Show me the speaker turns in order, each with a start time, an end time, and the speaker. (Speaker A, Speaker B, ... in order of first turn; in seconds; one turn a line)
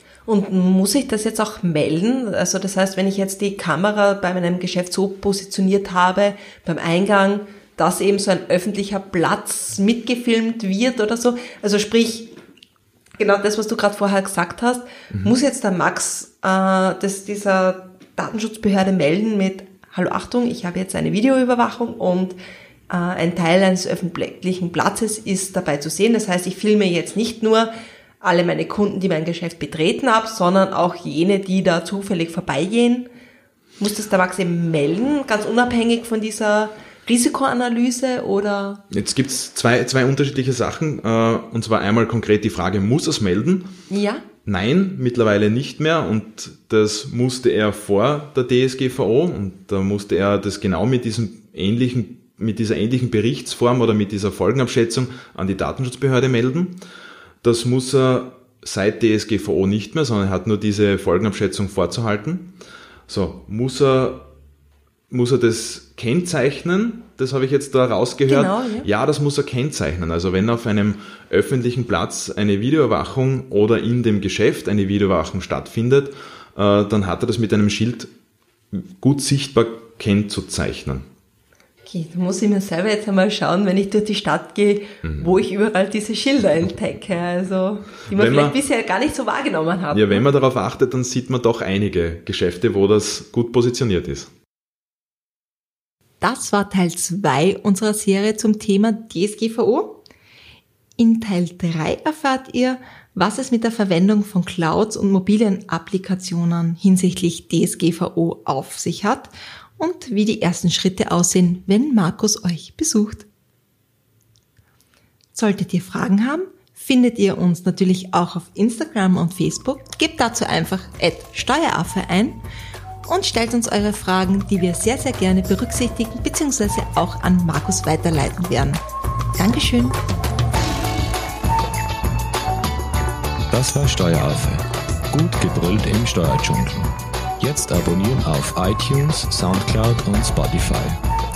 Speaker A: 0.2-12.3
Speaker A: 13.2-22.4
Speaker A: 22.9-27.7
Speaker A: 28.2-33.1
Speaker A: 33.8-38.8
Speaker B: 38.9-43.7
Speaker A: 43.9-44.2
Speaker B: 44.4-56.8
Speaker B: 57.4-62.5
Speaker B: 63.1-64.3
Speaker B: 65.1-78.1
Speaker A: 68.3-68.9
Speaker B: 78.7-81.0
Speaker A: 81.8-90.2
Speaker B: 88.1-88.5
Speaker B: 89.9-94.3
Speaker A: 96.2-100.0
Speaker A: 101.0-113.3
Speaker A: 115.3-122.4
Speaker A: 123.0-128.8
Speaker A: 129.4-130.0
Speaker C: 133.5-141.0